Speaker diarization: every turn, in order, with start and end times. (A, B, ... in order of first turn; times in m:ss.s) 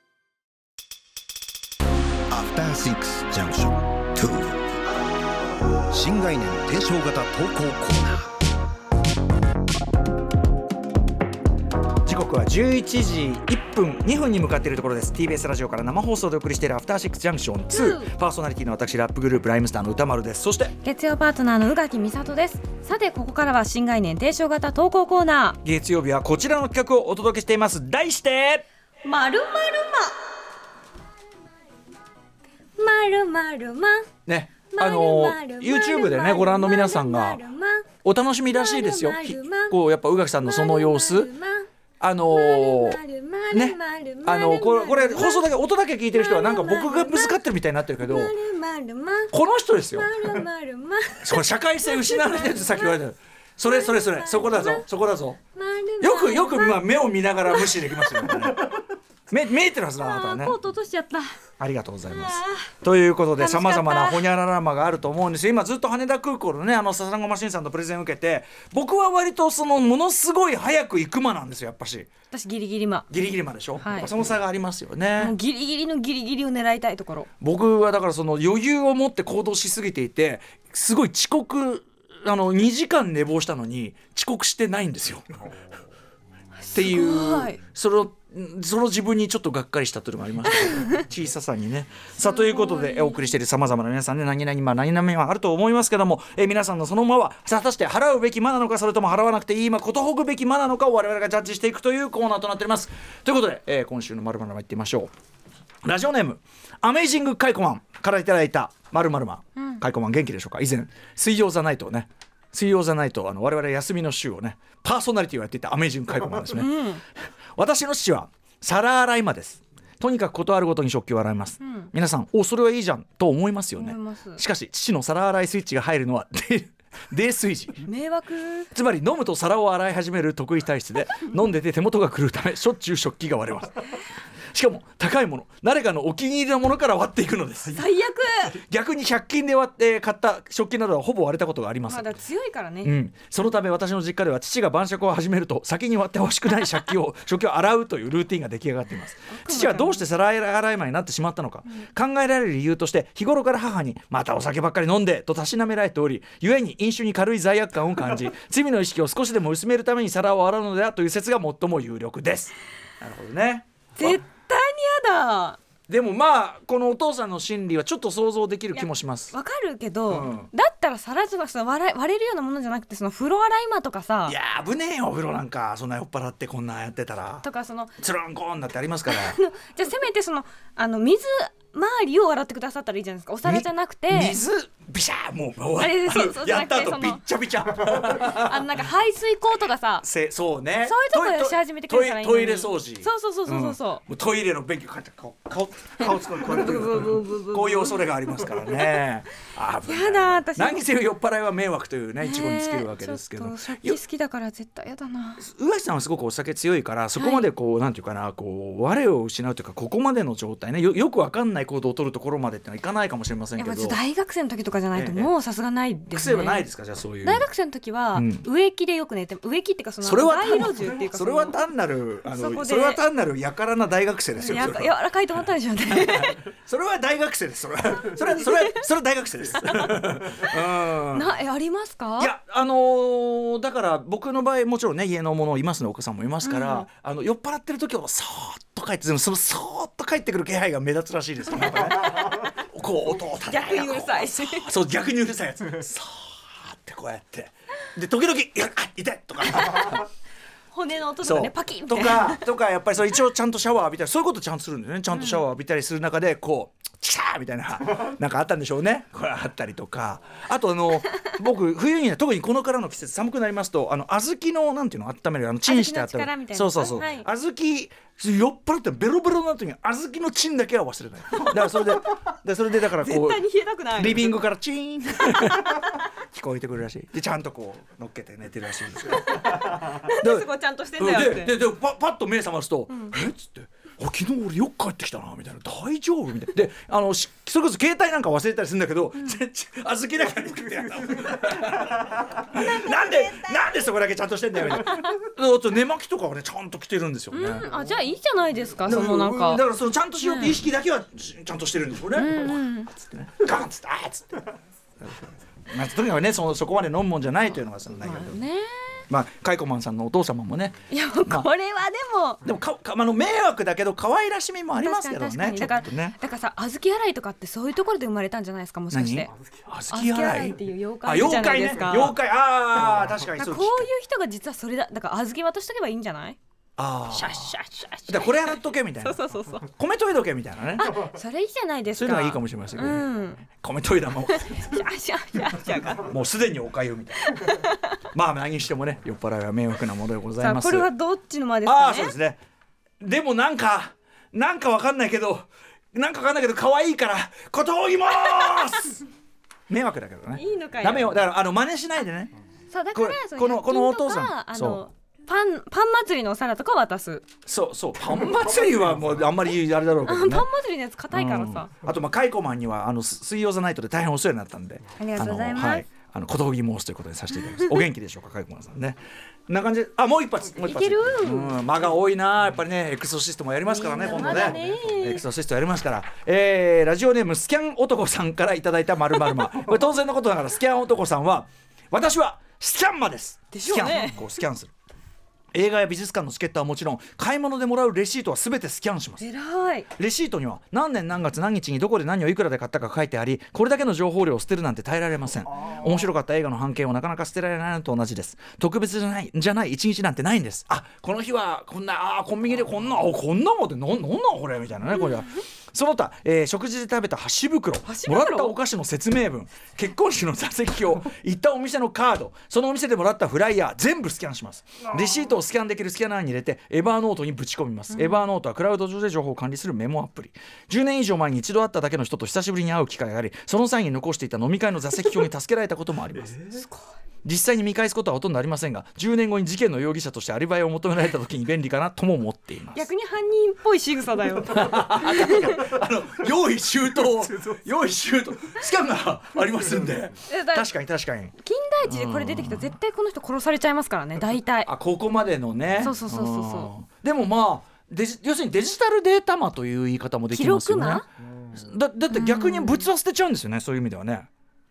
0:02.3-0:04.6 A
0:05.9-0:08.3 A
0:12.0-0:20.7 B
0:17.7-0:18.1 C
0:20.8-0:25.6 C
0:25.6-0:28.6 B
0:29.0-0:30.1 C
0:32.8-0:34.1 C
0:34.2-0:37.4 B
0:34.7-0:37.9 C
0:38.0-0:41.3 B
0:38.5-0:39.8 C
0:40.4-0:41.6 C
0:42.0-0:43.0 B
0:42.3-0:45.5 C
0:43.5-0:48.3 B
0:46.1-0:47.4 C
0:48.0-0:49.3 C
0:49.3-0:50.4 B
0:49.9-0:52.9 C
0:51.2-0:55.4 B
0:53.6-0:54.8 C
0:55.5-0:56.8 C
0:56.0-1:00.6 B
0:57.4-0:58.3 C
1:00.0-1:01.3 C
1:01.6-1:12.1 B
1:02.1-1:02.7 C
1:03.4-1:04.3 C
1:12.3-1:13.1 C
1:13.1-1:15.3 B
1:13.8-1:14.1 C
1:15.2-1:17.3 C
1:17.4-1:25.2 B
1:26.6-1:27.6 C
1:26.7-1:45.1 B
1:32.2-1:33.3 C
1:45.8-1:56.9 B
1:56.5-1:57.0 C
1:57.6-2:07.9 B
2:01.6-2:01.9 C
2:03.8-2:04.4 C
2:07.8-2:08.7 C
2:08.7-2:13.8 B
2:14.5-2:17.8 B
2:17.7-2:18.6 C
2:18.5-2:22.2 B
2:21.9-2:22.9 C
2:22.8-2:44.2 B
2:29.3-2:30.0 C
2:44.0-2:45.6 C
2:45.9-2:49.3 B
2:48.7-2:54.4 C
2:50.1-2:50.5 B
2:54.2-2:57.5 B
2:57.4-2:57.9 C
2:58.0-2:59.4 B
2:59.1-3:04.4 C
3:03.4-3:08.7 B
3:05.8-3:07.2 C
3:07.8-3:10.0 C
3:10.0-3:24.0 B
3:10.8-3:14.0 C
3:16.0-3:19.0 C
3:19.8-3:20.8 C
3:22.2-3:25.4 C
3:25.4-3:34.0 B
3:27.2-3:27.5 C
3:33.6-3:36.7 C
3:34.9-3:35.3 B
3:36.1-3:37.5 B
3:37.2-3:41.6 C
3:38.1-3:38.4 B
3:40.0-3:44.9 B
3:42.3-3:43.0 C
3:44.3-3:46.4 C
3:45.9-3:51.3 B
3:48.4-3:48.7 C
3:51.1-3:52.3 C
3:52.2-4:10.1 B
3:56.4-3:56.9 C
4:03.4-4:04.7 C
4:09.7-4:09.9 C
4:10.7-4:12.4 C
4:11.2-4:33.4 B
4:15.1-4:15.4 C
4:25.6-4:27.3 C
4:31.4-4:31.8 C
4:33.0-4:34.4 C
4:34.0-4:57.7 B
4:39.1-4:41.5 C
4:52.5-4:53.9 C
4:57.3-4:59.6 C
4:58.8-5:04.4 B
5:00.2-5:00.6 C
5:02.1-5:02.9 C
5:05.0-5:08.4 B
5:08.0-5:09.0 C
5:09.1-5:11.5 B
5:10.9-5:12.4 C
5:12.4-5:16.2 B
5:14.8-5:19.3 C
5:18.9-5:23.9 B
5:19.9-5:22.2 C
5:23.4-5:26.4 C
5:26.8-5:27.5 B
5:27.1-5:29.7 C
5:28.1-5:31.1 B
5:30.8-5:33.4 C
5:31.9-5:34.7 B
5:34.3-5:36.1 C
5:36.0-5:37.2 B
5:37.2-5:38.0 C
5:38.1-5:40.9 B
5:40.4-5:42.1 C
5:41.6-5:42.4 B
5:43.0-5:49.0 B
5:49.7-5:52.3 B
5:50.3-5:51.2 C
5:52.7-5:57.2 C
5:52.9-5:54.8 B
5:57.4-6:00.5 B
6:00.0-6:01.7 C
6:01.1-6:24.7 B
6:05.0-6:05.8 C
6:07.5-6:07.8 C
6:10.6-6:11.6 C
6:13.6-6:15.2 C
6:23.5-6:24.2 C
6:25.5-6:29.2 B
6:29.2-6:29.9 C
6:29.9-7:06.4 B
6:47.8-6:48.6 C
7:06.5-7:06.9 C
7:07.2-7:12.8 B
7:12.7-7:15.6 C
7:14.4-7:22.7 B
7:20.3-7:20.7 C
7:21.4-7:24.7 C
7:24.6-7:34.3 B
7:25.8-7:26.7 C
7:30.3-7:31.1 C
7:32.1-7:32.9 C